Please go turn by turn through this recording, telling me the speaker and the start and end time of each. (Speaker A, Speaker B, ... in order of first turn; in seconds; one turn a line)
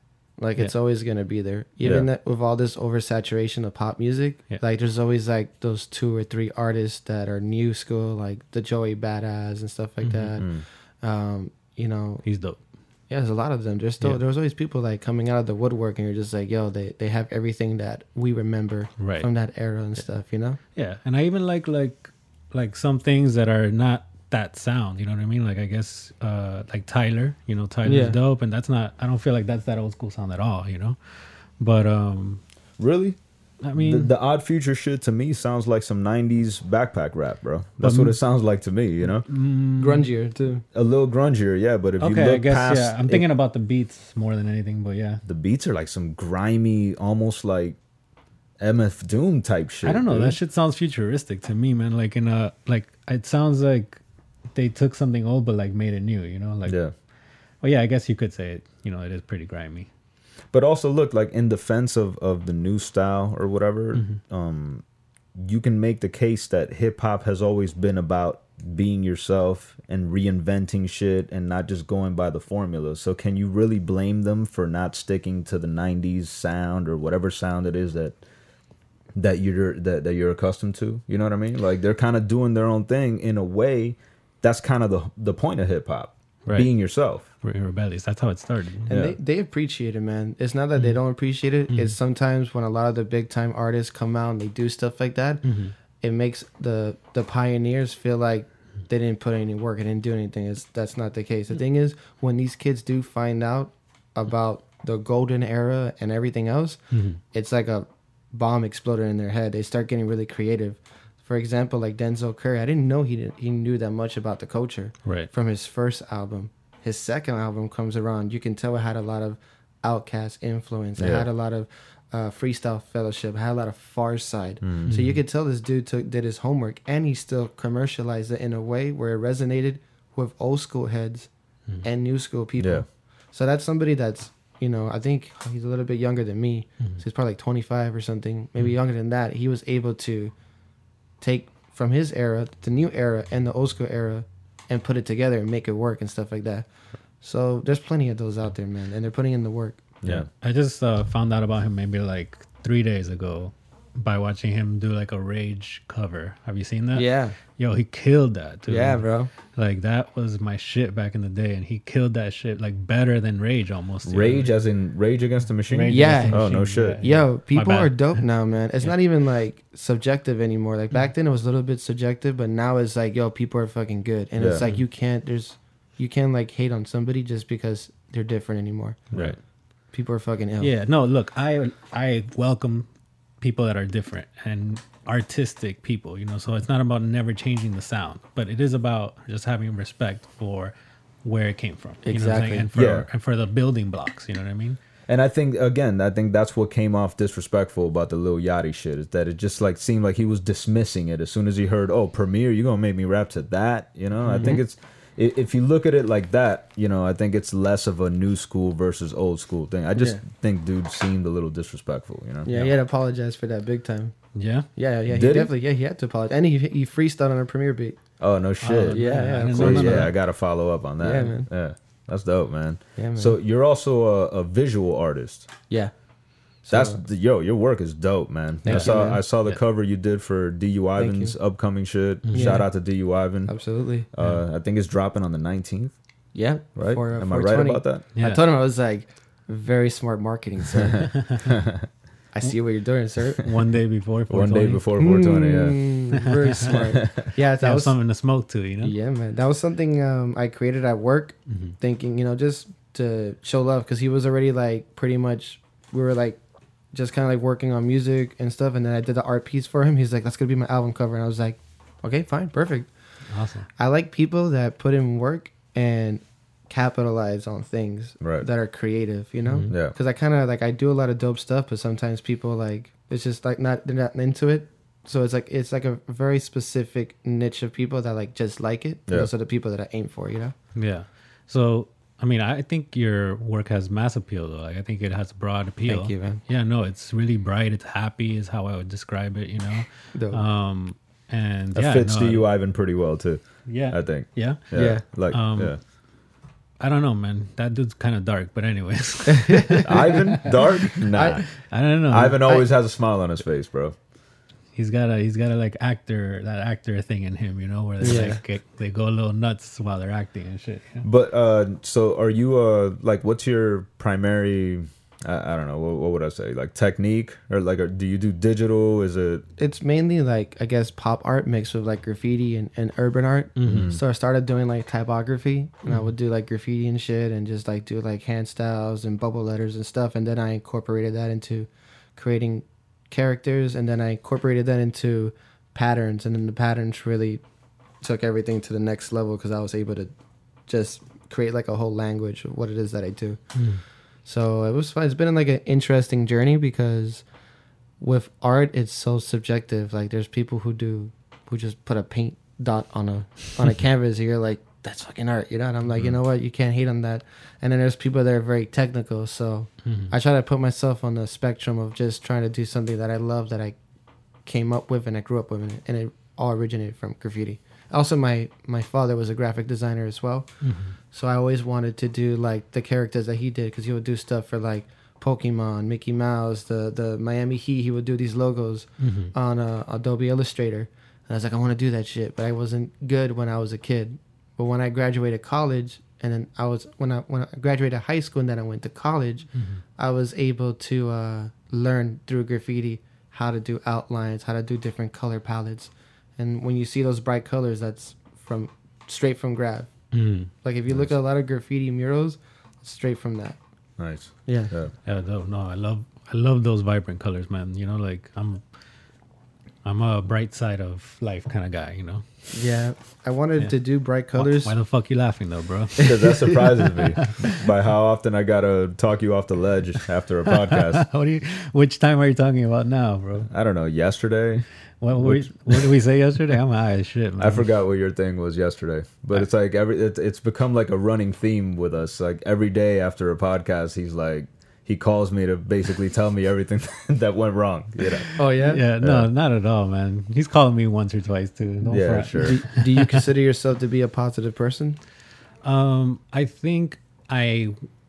Speaker A: 0.4-12.2
Speaker B: 10.0-10.3
Speaker C: 10.4-10.6
Speaker B: 12.2-12.6
Speaker A: 13.1-20.6
Speaker B: 19.0-19.3
Speaker B: 20.7-31.0
Speaker A: 27.8-28.2
Speaker B: 31.6-32.4
Speaker C: 32.8-33.2
Speaker B: 33.6-34.1
Speaker C: 33.8-39.2
Speaker B: 37.8-38.2
Speaker B: 39.2-40.1
Speaker A: 39.8-40.6
Speaker C: 40.7-43.2
Speaker B: 42.0-45.2
Speaker C: 45.2-47.8
Speaker C: 48.6-50.4
Speaker B: 49.8-54.0
Speaker B: 54.5-56.8
Speaker C: 56.7-56.9
Speaker B: 57.6-59.9
Speaker C: 60.5-64.8
Speaker B: 63.9-64.2
Speaker C: 65.4-78.2
Speaker C: 79.1-87.3
Speaker B: 87.4-88.9
Speaker A: 88.9-95.5
Speaker C: 88.9-89.2
Speaker B: 95.4-95.7
Speaker A: 96.0-106.8
Speaker B: 106.9-107.2
Speaker A: 107.3-131.3
Speaker C: 121.0-121.3
Speaker C: 124.6-124.9
Speaker B: 124.9-125.2
Speaker A: 131.8-140.3
Speaker C: 132.6-132.8
Speaker A: 141.2-146.7
Speaker A: 147.2-149.9
Speaker B: 150.1-164.5
Speaker A: 156.9-157.4
Speaker A: 158.7-159.3
Speaker C: 164.1-167.0
Speaker B: 165.7-168.2
Speaker A: 165.9-179.1
Speaker C: 174.4-174.6
Speaker B: 179.1-179.4
Speaker A: 179.9-180.7
Speaker B: 180.6-182.9
Speaker B: 183.4-194.8
Speaker A: 192.0-192.7
Speaker C: 192.7-193.1
Speaker C: 195.1-212.7
Speaker B: 204.2-204.6
Speaker A: 209.9-210.2
Speaker A: 212.4-214.1
Speaker B: 214.3-214.7
Speaker A: 214.8-218.0
Speaker C: 215.1-215.5
Speaker C: 218.2-225.5
Speaker B: 218.6-220.1
Speaker A: 218.9-220.1
Speaker A: 221.0-221.5
Speaker A: 223.0-223.4
Speaker A: 226.6-227.0
Speaker C: 226.7-233.5
Speaker A: 228.6-229.2
Speaker B: 228.7-229.6
Speaker A: 231.0-231.3
Speaker B: 232.2-232.6
Speaker A: 232.3-232.7
Speaker A: 233.4-234.1
Speaker C: 234.1-235.9
Speaker A: 236.3-241.2
Speaker C: 236.8-238.0
Speaker B: 238.2-238.4
Speaker C: 241.4-241.8
Speaker A: 242.3-243.5
Speaker B: 243.4-244.8
Speaker C: 244.3-245.8
Speaker A: 245.0-248.0
Speaker B: 246.1-246.8
Speaker C: 246.7-247.3
Speaker B: 247.6-248.9
Speaker A: 248.8-256.4
Speaker B: 251.5-251.7
Speaker A: 256.9-262.9
Speaker B: 263.3-263.7
Speaker A: 263.8-280.5
Speaker C: 268.2-268.5
Speaker B: 269.4-269.7
Speaker B: 280.7-292.5
Speaker A: 285.9-286.4
Speaker A: 290.1-290.4
Speaker C: 291.7-295.8
Speaker B: 293.6-294.6
Speaker A: 294.7-295.0
Speaker B: 295.3-295.8
Speaker B: 296.8-300.5
Speaker A: 299.3-300.1
Speaker C: 299.8-301.4
Speaker A: 301.1-301.4
Speaker B: 301.6-302.4
Speaker C: 302.1-303.9
Speaker B: 304.7-311.1
Speaker A: 308.0-308.4
Speaker C: 311.0-319.4
Speaker A: 319.6-337.4
Speaker B: 323.6-323.9
Speaker C: 323.7-324.0
Speaker A: 338.0-340.1
Speaker A: 340.7-343.4
Speaker B: 343.5-343.8
Speaker A: 344.2-347.2
Speaker A: 348.0-363.8
Speaker B: 359.8-360.1
Speaker A: 364.4-370.5
Speaker B: 370.6-370.9
Speaker A: 371.1-399.9
Speaker B: 379.0-379.3
Speaker B: 389.5-389.8
Speaker B: 400.1-400.5
Speaker A: 400.6-403.6
Speaker C: 400.9-401.1
Speaker C: 404.0-404.9
Speaker A: 404.5-404.7
Speaker B: 405.0-408.6
Speaker B: 409.8-412.2
Speaker A: 412.5-414.7
Speaker B: 414.3-416.1
Speaker A: 416.0-416.5
Speaker C: 416.0-421.1
Speaker B: 417.2-417.5
Speaker B: 420.5-423.5
Speaker C: 423.5-425.9
Speaker B: 425.0-427.7
Speaker C: 427.4-438.3
Speaker A: 438.4-438.8
Speaker B: 438.6-443.2
Speaker C: 439.0-439.3
Speaker C: 441.9-442.6
Speaker A: 442.4-445.0
Speaker B: 445.6-447.8